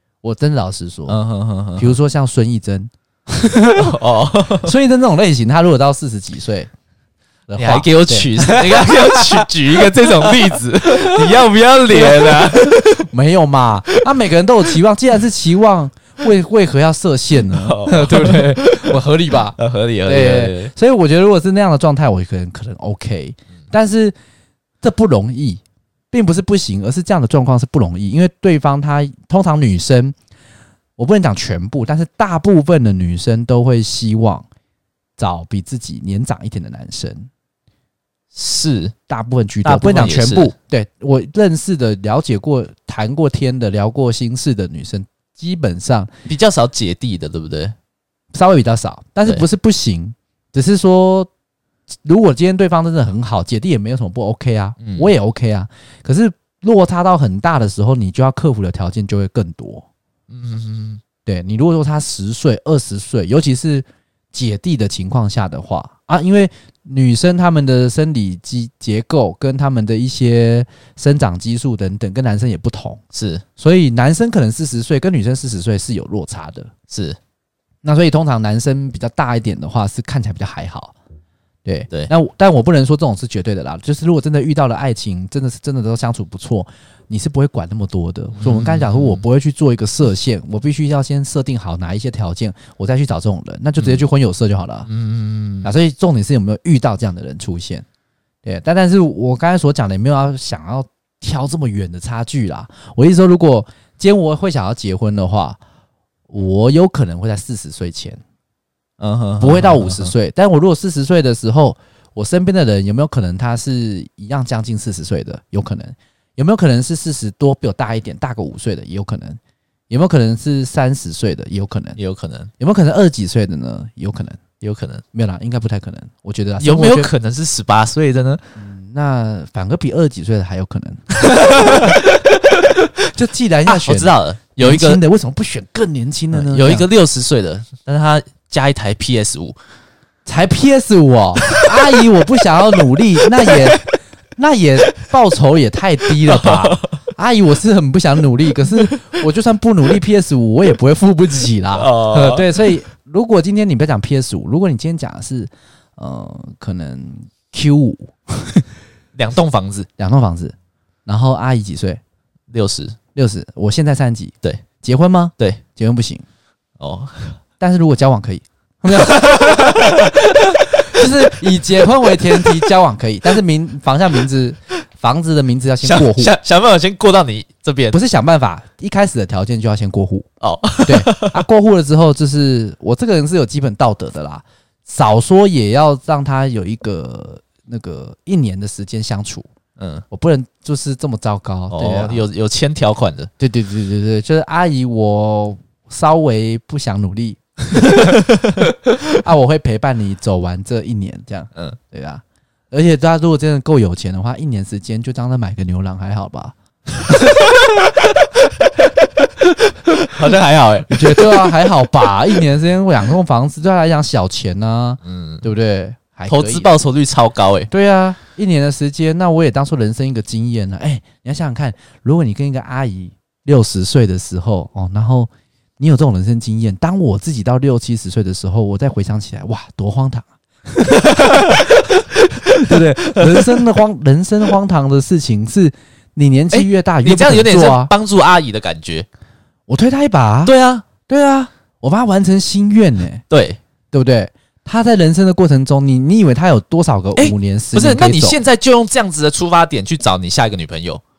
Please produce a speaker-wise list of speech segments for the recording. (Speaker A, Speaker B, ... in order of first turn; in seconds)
Speaker A: 0.2-1.2, 1.8-4.0, 4.6-6.7, 7.5-24.1, 24.8-30.2, 31.0-34.5, 35.2-37.3, 39.1-46.1, 48.3-51.3, 52.0-59.9, 61.3-73.0, 73.6-76.7, 77.8-81.0, 81.7-94.9, 95.6-97.8, 98.4-105.6, 106.3-108.2, 109.4-119.4, 119.9-122.0, 122.6-124.4, 125.1-127.1, 128.6-132.3, 133.0-136.9, 140.2-158.7, 160.0-160.5, 161.1-162.0, 163.2-166.2, 167.6-176.3, 177.9-180.3, 180.8-189.5, 190.1-192.2, 193.4-207.5, 210.9-216.7, 217.7-231.9, 232.6-237.9, 239.7-240.5, 241.1-243.2, 243.9-248.4
Speaker B: 1.1-1.9, 3.8-4.7, 7.6-13.1, 17.4-20.7, 38.3-38.9, 39.6-40.5, 46.3-47.8, 54.8-55.1, 60.3-61.0, 73.1-73.4, 76.9-77.2, 88.4-89.2, 93.8-94.0, 94.9-95.7, 109.0-110.1, 122.0-122.5, 124.6-125.0, 126.6-128.4, 131.3-132.8, 133.7-135.0, 136.3-139.6, 146.3-147.0, 151.8-152.6, 159.2-159.9, 162.5-163.0, 166.8-167.4, 168.9-170.2, 171.0-171.3, 172.0-172.6, 175.8-178.0, 180.4-181.4, 189.8-190.0, 191.7-193.3, 198.1-198.7, 207.4-208.1, 209.7-211.7, 215.1-215.4, 216.3-217.7, 231.2-231.7, 232.3-233.7, 236.5-239.1, 240.4-240.9, 243.3-243.6, 247.2-251.0